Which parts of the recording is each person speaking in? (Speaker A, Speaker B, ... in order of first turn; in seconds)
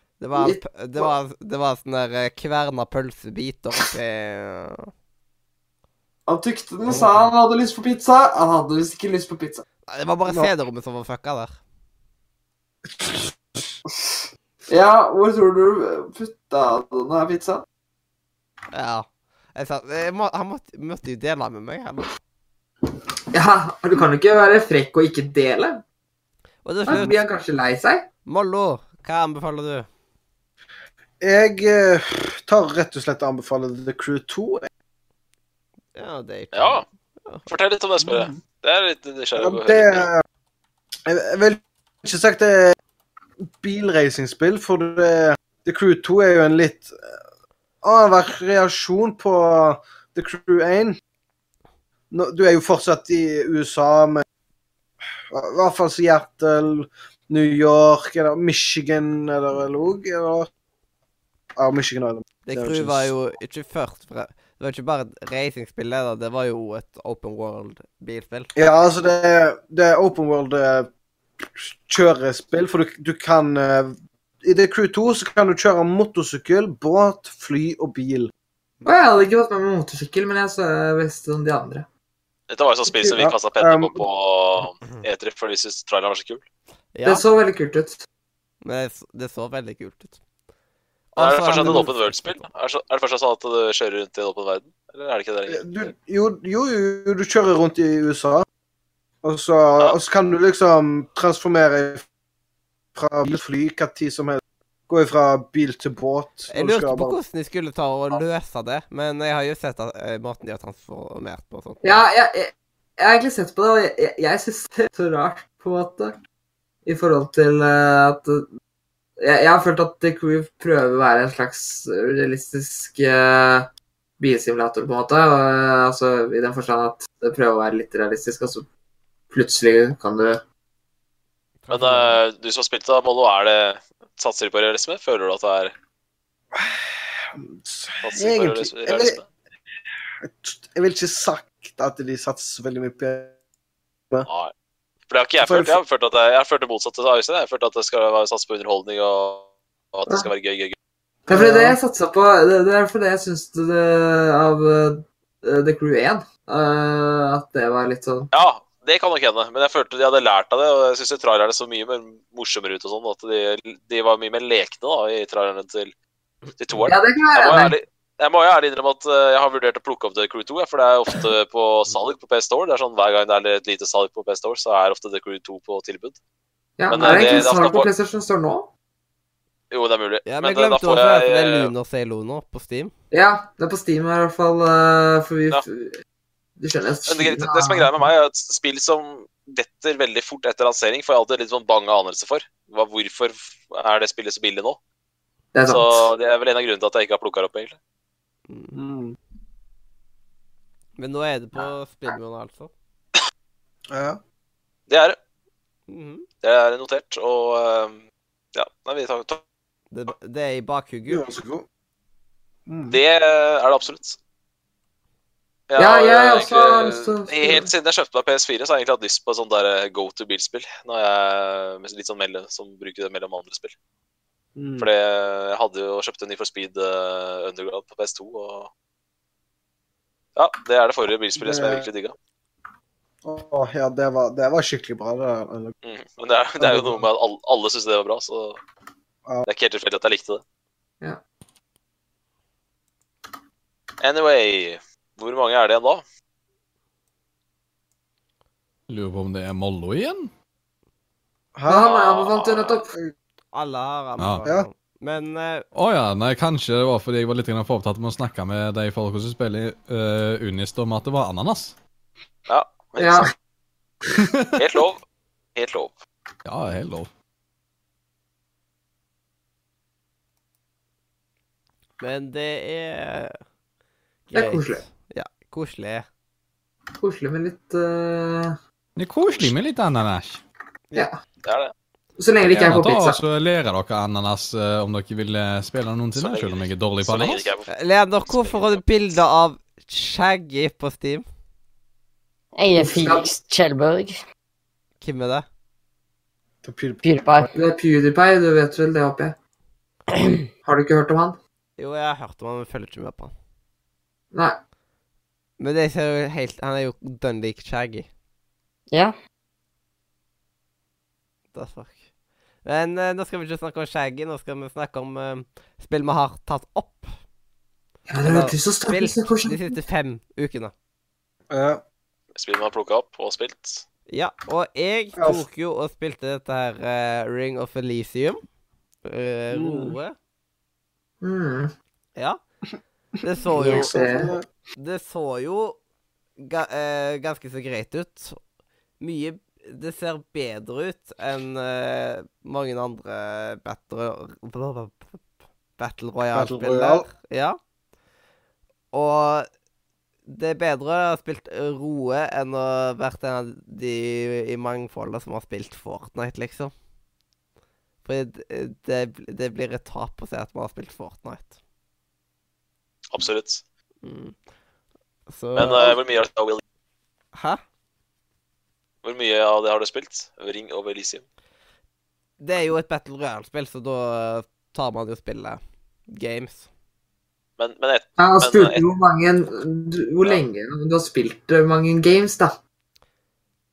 Speaker A: 0.2-4.9, 9.9-11.6, 18.7-22.1, 26.6-27.2, 28.2-29.9, 35.9-37.5, 62.5-68.5, 86.9-87.2, 88.6-90.2, 91.1-92.5, 106.5-112.0, 131.6-132.2, 177.0-177.4, 180.2-182.9, 198.5-198.8, 201.0-202.7, 205.9-206.2, 209.9-211.2, 253.5-255.7, 272.0-273.4, 274.3-276.1, 287.7-291.2, 295.0-295.4, 301.8-303.3, 305.6-308.1, 311.5-312.0, 312.6-317.1, 318.2-320.7, 324.1-328.4, 329.0-330.1, 333.2-333.9, 334.7-335.8, 336.4-338.4, 339.0-345.2, 345.8-347.6, 348.9-349.5, 350.3-356.7, 358.0-361.6, 364.0-364.4, 365.3-366.0, 367.3-367.6, 372.4-376.7
Speaker B: 0.3-1.1, 6.3-9.6, 13.9-17.6, 23.3-25.8, 26.9-28.1, 78.8-81.9, 87.0-88.0, 111.8-116.2, 116.8-118.5, 119.2-123.7, 124.2-128.7, 129.3-130.4, 151.3-158.3, 166.8-167.7, 176.8-178.7, 183.1-185.9, 186.6-187.9, 195.5-196.1, 215.8-217.7, 251.7-252.9, 263.0-263.3, 274.3-274.8, 277.0-278.6, 282.2-283.2, 292.8-293.3, 297.5-299.4, 300.6-301.4, 304.3-304.6, 318.1-319.7, 331.2-331.7, 333.8-334.3, 378.2-382.6
Speaker C: 6.9-7.3, 10.2-10.5, 12.9-13.3, 31.2-34.7, 38.0-38.4, 39.4-40.2, 41.1-42.8, 43.6-47.0, 47.8-51.0, 52.1-54.2, 55.3-60.5, 61.6-63.1, 68.5-70.9, 71.4-78.3, 82.9-84.0, 95.5-98.5, 99.2-102.0, 102.9-107.2, 136.5-136.8, 137.3-139.2, 140.2-143.3, 145.4-145.8, 151.3-151.8, 198.7-199.2, 203.9-204.2, 211.1-211.7, 212.7-213.0, 224.6-224.9, 231.4-231.9, 233.2-235.7, 236.6-237.1, 251.6-251.9, 296.6-297.0, 321.5-321.8, 325.2-325.4, 329.5-329.9, 333.5-334.5, 346.3-347.1
Speaker D: 36.5-36.8, 37.5-40.1, 82.5-86.4, 91.2-95.9, 131.7-135.7, 138.0-139.3, 144.3-144.5, 145.1-150.8, 158.3-165.9, 166.6-176.2, 176.9-177.9, 179.7-181.7, 187.1-194.8, 195.7-197.8, 204.9-205.2, 206.4-208.0, 208.5-209.4, 212.9-214.2, 215.7-223.7, 224.8-228.7, 230.3-232.1, 235.8-238.6, 239.4-240.4, 244.0-246.0, 251.8-252.8, 262.5-263.3, 264.6-265.0, 265.5-266.0, 279.3-279.5, 281.4-281.7, 286.1-287.7, 288.2-288.8, 322.3-323.8, 363.1-363.6, 365.5-366.6, 369.0-371.2, 377.6-378.8
Speaker E: 248.9-250.3, 254.2-254.4, 255.7-261.8, 264.1-264.5, 266.4-267.1, 278.9-280.4, 282.6-287.4
Speaker F: 292.6-294.2, 297.0-297.5, 300.1-300.4, 333.6-333.8